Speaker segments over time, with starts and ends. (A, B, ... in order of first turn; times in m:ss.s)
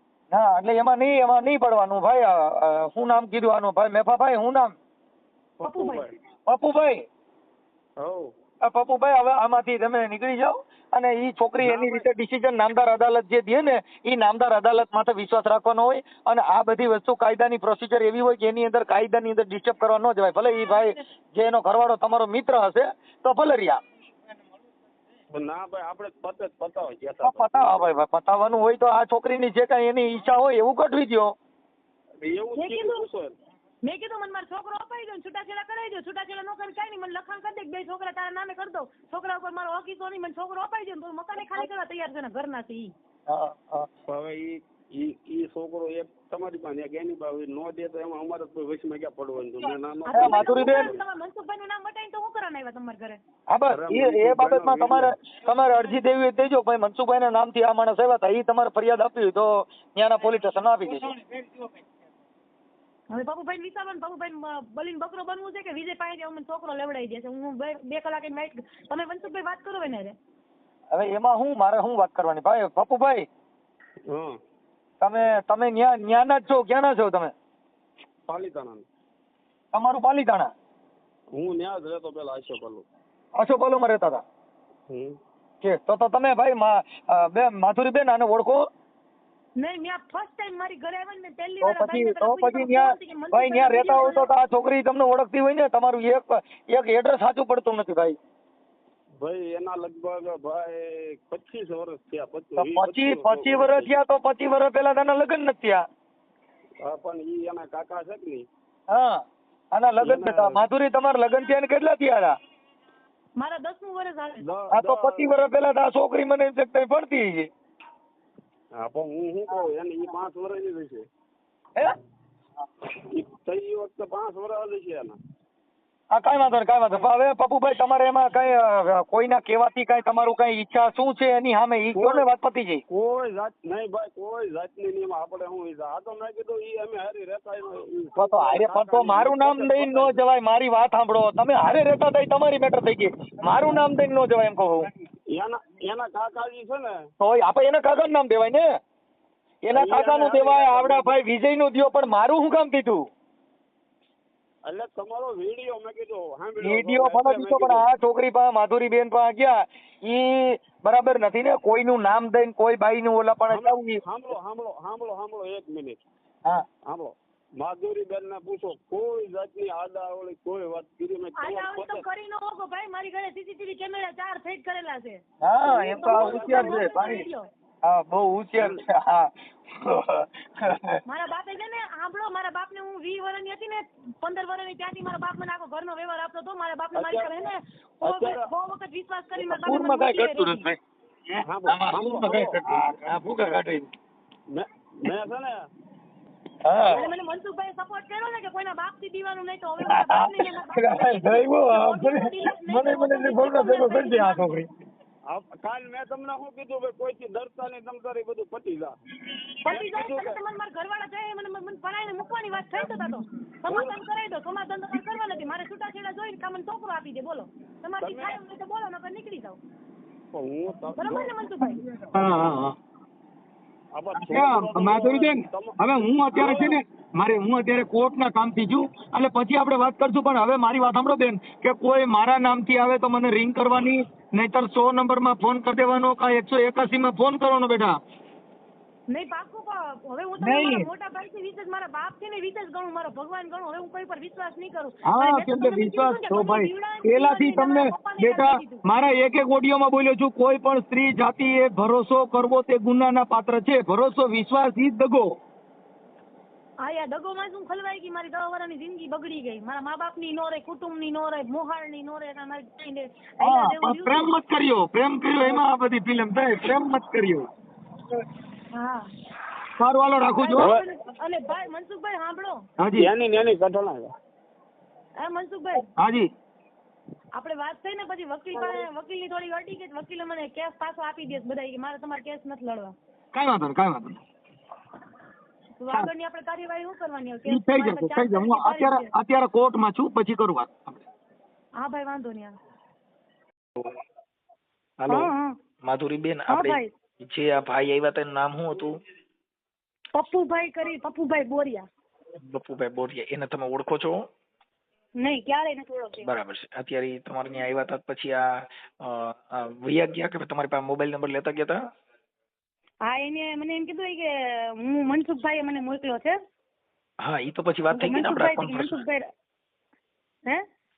0:00.3-0:04.7 A
0:05.6-0:06.1 B
0:05.6-0:06.1 C
0:06.5-0:07.0 A
0:08.0-0:08.3 B
0:08.6-0:23.8 A
0:11.6-0:12.0 B
0:25.3-0:27.9 B
0:27.2-0:31.4 A
0:32.2-0:33.3 B
0:32.6-0:33.0 C
0:33.8-0:42.9 C
0:43.3-0:43.9 A
0:44.1-0:51.0 B
0:50.0-0:53.2 C
0:50.1-0:50.9 A
0:53.5-1:01.1 A
0:53.7-0:55.1 B
1:03.1-1:10.1 C
1:10.9-1:13.2 A
1:14.1-1:14.4 B
1:15.0-1:17.3 A
1:18.3-1:18.8 B
1:19.7-1:20.5 A
1:21.3-1:22.9 B
1:23.4-1:24.2 A
1:25.6-1:28.6 A
1:29.6-1:34.3 C
1:31.6-1:38.2 A
1:39.2-1:44.0 B
1:42.6-1:45.8 A
1:46.8-1:48.5 B
1:48.9-1:49.2 A
1:49.7-1:52.3 A
1:50.0-1:50.6 B
1:53.4-1:54.4 C
1:54.4-1:55.3 B
1:54.7-1:57.5 A
1:58.8-2:01.1 B
2:02.9-2:05.2 B
2:06.1-2:12.8 A
2:11.9-2:12.3 B
2:12.9-2:20.2 B
2:18.2-2:24.9 A
2:25.3-2:27.0 B
2:27.2-2:28.7 A
2:29.7-2:33.0 A
2:29.7-2:31.2 B
2:34.6-2:37.9 B
2:36.6-2:44.0 A
2:43.5-2:46.0 B
2:46.9-2:52.0 B
2:51.4-2:55.2 C
2:55.4-2:57.2 A
2:55.6-2:56.9 B
2:56.0-2:57.5 C
2:57.8-3:01.0 A
3:01.1-3:10.7 C
3:07.0-3:07.4 B
3:08.0-3:08.5 B
3:09.5-3:10.8 A
3:11.3-3:13.9 A
3:11.5-3:12.7 B
3:14.5-3:15.6 B
3:16.7-3:17.0 A
3:16.9-3:24.6 C
3:19.8-3:24.7 A
3:25.3-3:28.9 B
3:29.6-3:39.6 C
3:29.7-3:30.4 B
3:33.7-3:34.0 B
3:38.0-3:38.4 B
3:40.3-3:41.4 B
3:41.0-3:41.8 C
3:42.1-3:42.8 A
3:43.9-3:46.8 B
3:44.2-3:58.0 A
3:59.1-4:08.8 C
4:00.4-4:00.9 A
4:05.0-4:15.3 A
4:16.8-4:24.3 C
4:23.4-4:27.5 A
4:28.7-4:29.1 C
4:29.8-4:30.8 A
4:30.4-4:32.6 C
4:30.6-4:30.8 B
4:32.8-4:33.1 A
4:33.0-4:34.1 B
4:35.2-4:35.8 C
4:36.0-4:36.3 A
4:37.3-4:43.0 C
4:43.3-4:44.2 A
4:45.8-4:49.1 C
4:47.4-4:51.0 A
4:51.8-4:52.5 C
4:55.0-4:55.3 D
4:55.1-4:55.5 C
4:55.8-4:58.9 D
4:56.5-4:56.9 C
5:00.1-5:01.8 C
5:02.4-5:04.2 D
5:05.2-5:06.3 C
5:06.2-5:08.4 D
5:09.0-5:11.8 D
5:13.0-5:16.4 C
5:17.2-5:18.9 D
5:17.9-5:19.2 C